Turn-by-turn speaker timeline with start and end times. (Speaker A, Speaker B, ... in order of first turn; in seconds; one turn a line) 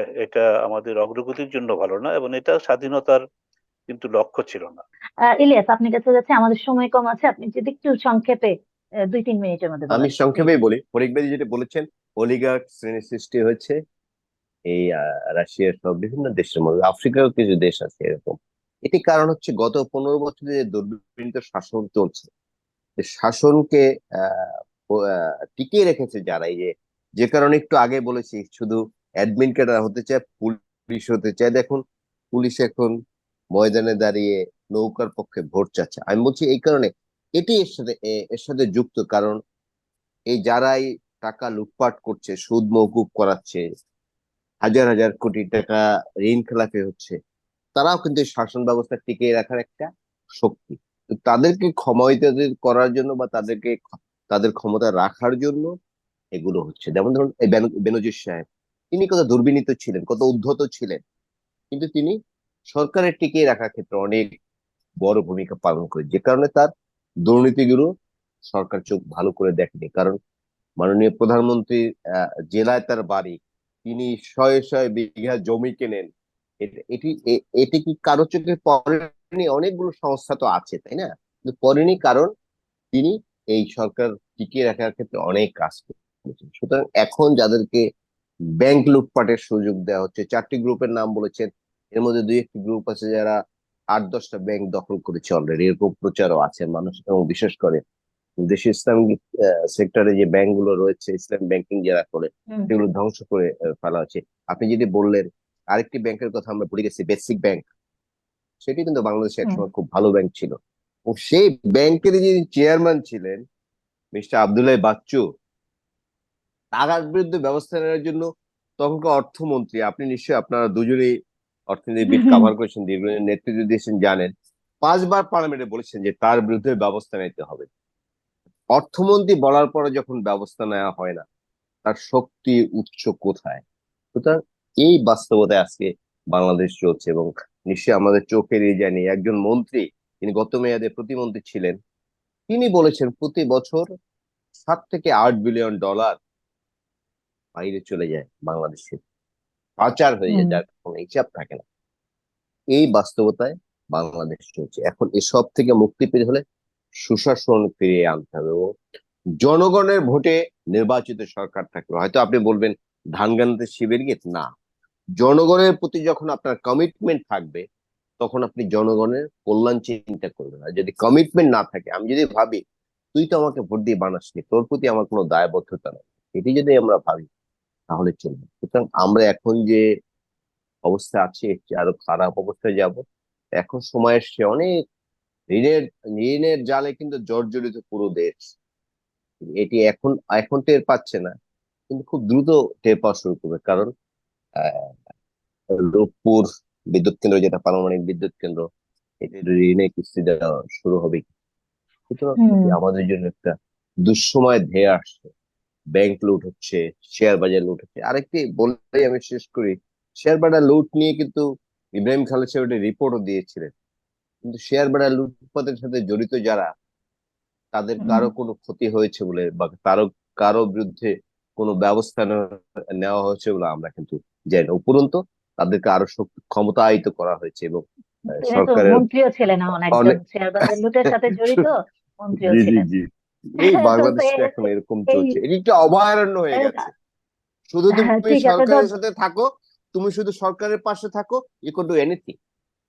Speaker A: 0.2-3.2
Speaker A: 3.9-4.8
Speaker B: 5.4-8.5
Speaker B: 9.1-10.5
Speaker C: 9.9-13.8
Speaker C: 14.7-22.3
Speaker C: 23.0-24.5
Speaker C: 25.1-31.8
Speaker C: 32.3-32.9
Speaker C: 33.5-39.4
Speaker C: 40.3-43.6
Speaker C: 44.6-47.1
Speaker C: 47.8-55.7
Speaker C: 56.4-61.0
Speaker C: 61.7-62.1
Speaker C: 62.7-64.3
Speaker C: 65.0-66.7
Speaker C: 67.2-67.9
Speaker C: 68.5-70.2
Speaker C: 70.8-71.8
Speaker C: 72.5-76.1
Speaker C: 76.6-82.3
Speaker C: 82.9-87.8
Speaker C: 88.6-93.3
Speaker C: 93.9-97.8
Speaker C: 98.4-99.2
Speaker C: 99.7-107.6
Speaker C: 108.6-110.5
Speaker C: 111.1-113.4
Speaker C: 114.1-115.2
Speaker C: 116.7-118.2
Speaker C: 118.8-121.1
Speaker C: 121.7-124.3
Speaker B: 122.1-122.5
Speaker C: 124.8-127.7
Speaker C: 128.7-131.2
Speaker C: 131.8-133.6
Speaker C: 134.1-141.8
Speaker C: 142.5-143.8
Speaker C: 144.7-146.2
Speaker C: 147.6-149.0
Speaker C: 149.8-151.6
Speaker B: 150.3-150.6
Speaker C: 152.7-156.4
Speaker C: 157.0-158.6
Speaker C: 159.4-164.4
Speaker C: 165.2-167.6
Speaker C: 168.2-172.6
Speaker C: 173.1-177.3
Speaker C: 177.9-179.8
Speaker C: 180.9-183.0
Speaker C: 183.6-184.7
Speaker C: 185.5-188.4
Speaker C: 189.6-191.3
Speaker C: 191.9-193.9
Speaker C: 194.6-194.9
Speaker C: 195.7-198.6
Speaker C: 199.2-201.3
Speaker C: 202.1-203.5
Speaker B: 202.4-202.7
Speaker C: 204.1-205.3
Speaker C: 205.9-211.4
Speaker C: 212.0-213.7
Speaker C: 214.4-216.7
Speaker C: 217.7-222.4
Speaker B: 218.0-218.3
Speaker C: 223.0-227.8
Speaker B: 228.3-232.8
Speaker C: 228.3-229.0
Speaker C: 231.3-231.6
Speaker C: 232.4-233.0
Speaker C: 233.6-236.9
Speaker B: 233.7-234.5
Speaker B: 236.6-236.8
Speaker C: 237.7-242.3
Speaker B: 238.0-238.8